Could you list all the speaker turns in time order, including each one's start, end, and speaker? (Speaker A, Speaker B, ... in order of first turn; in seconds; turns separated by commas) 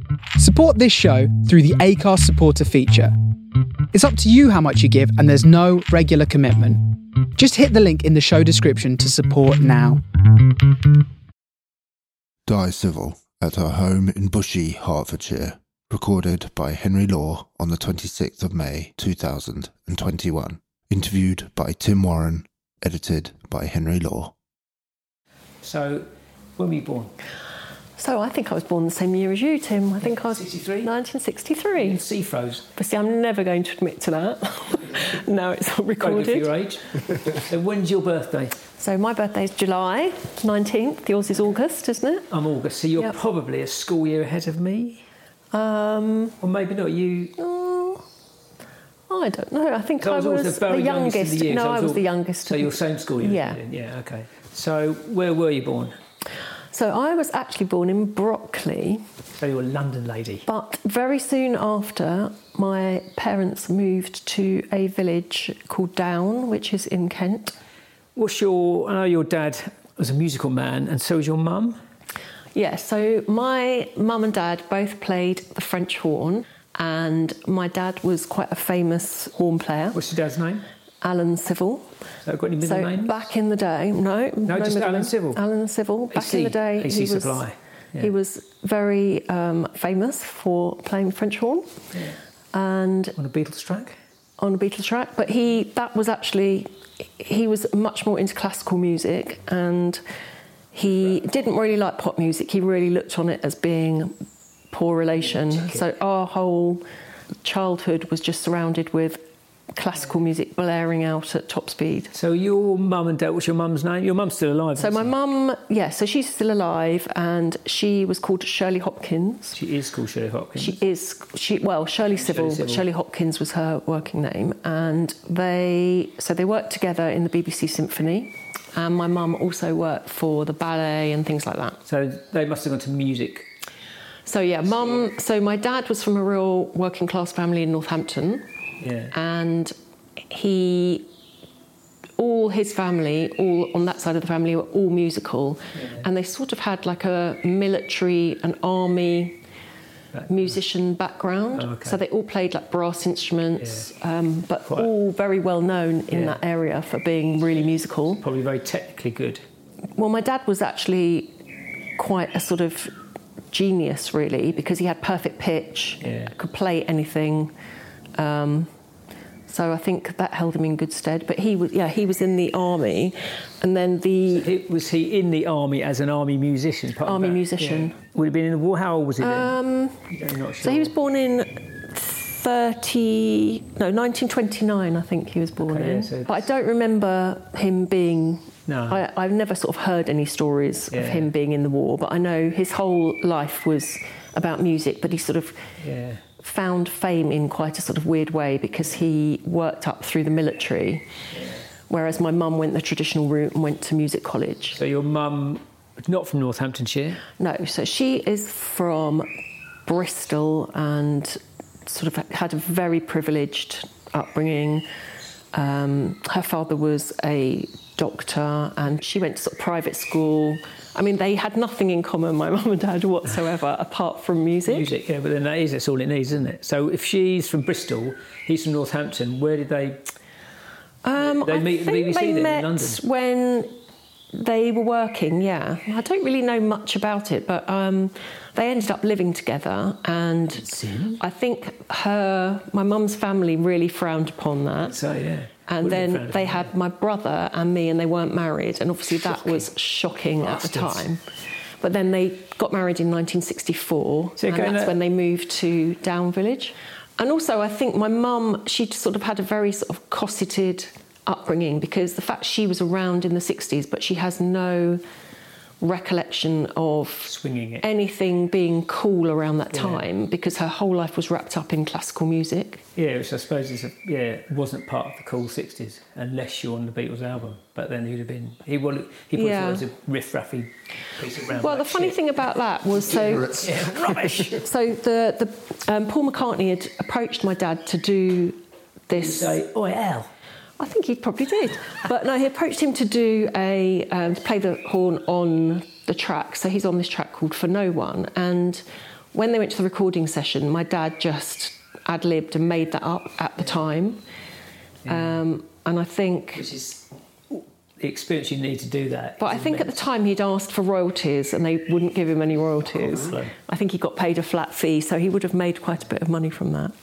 Speaker A: 0.4-3.1, Speaker A: 3.9-10.0, Speaker B: 12.5-24.3, Speaker C: 25.6-27.1, Speaker D: 28.0-32.0, Speaker C: 30.0-30.9, Speaker C: 31.8-32.7, Speaker D: 32.8-36.5, Speaker C: 36.0-38.6, Speaker D: 38.8-42.3, Speaker C: 42.3-45.0, Speaker D: 45.5-46.4, Speaker C: 46.4-47.4, Speaker D: 47.4-48.1, Speaker D: 49.1-53.6, Speaker C: 50.0-56.0, Speaker D: 56.7-59.0, Speaker C: 59.4-60.5, Speaker D: 60.5-67.5, Speaker C: 68.2-71.8, Speaker D: 72.5-80.0, Speaker C: 79.9-80.7, Speaker D: 81.0-81.9, Speaker C: 82.3-83.2, Speaker D: 82.6-87.5, Speaker C: 84.5-85.4, Speaker C: 86.1-88.1, Speaker D: 88.0-91.8, Speaker D: 92.5-93.2, Speaker C: 93.2-94.0, Speaker D: 94.4-100.0, Speaker D: 100.7-106.8, Speaker C: 105.3-105.8, Speaker D: 107.4-112.1, Speaker C: 112.1-115.1, Speaker D: 114.8-119.6, Speaker C: 119.5-120.8, Speaker D: 120.6-131.8, Speaker C: 122.2-122.8, Speaker C: 131.9-133.5, Speaker D: 134.3-138.5, Speaker C: 138.8-139.1, Speaker D: 139.1-139.7, Speaker D: 140.3-141.1, Speaker D: 142.2-149.4, Speaker C: 145.8-146.0, Speaker D: 150.3-158.2, Speaker C: 151.6-152.0, Speaker C: 153.6-153.8, Speaker C: 156.1-156.4, Speaker C: 158.2-159.4, Speaker D: 160.0-161.4, Speaker D: 162.0-162.9, Speaker D: 163.5-167.5, Speaker C: 166.0-166.3, Speaker D: 168.2-168.7, Speaker D: 169.5-174.5, Speaker C: 174.3-179.6, Speaker D: 177.1-178.0, Speaker D: 179.2-180.1, Speaker C: 180.1-180.9, Speaker D: 180.6-195.7, Speaker C: 185.6-186.5, Speaker C: 188.7-189.0, Speaker C: 190.9-191.3, Speaker C: 195.8-196.2, Speaker D: 196.4-201.1, Speaker D: 201.9-204.8, Speaker C: 204.8-207.2, Speaker D: 207.4-209.3, Speaker D: 209.9-214.9, Speaker D: 215.5-224.9, Speaker C: 224.7-230.1, Speaker D: 231.0-233.7, Speaker C: 231.2-233.0, Speaker D: 234.3-245.0, Speaker C: 240.5-241.2, Speaker C: 244.8-246.7, Speaker D: 245.7-251.2, Speaker C: 249.3-249.6, Speaker C: 250.4-251.0, Speaker D: 251.8-265.0, Speaker C: 254.4-254.9, Speaker D: 265.8-272.8, Speaker C: 267.3-267.9, Speaker C: 269.7-270.0, Speaker C: 273.0-282.2, Speaker D: 279.3-279.9, Speaker D: 281.4-289.6, Speaker C: 283.2-284.6, Speaker C: 289.2-290.3, Speaker D: 290.8-304.2, Speaker C: 305.1-305.4, Speaker D: 305.1-306.7, Speaker C: 306.6-310.0, Speaker D: 309.4-316.9, Speaker C: 312.9-313.5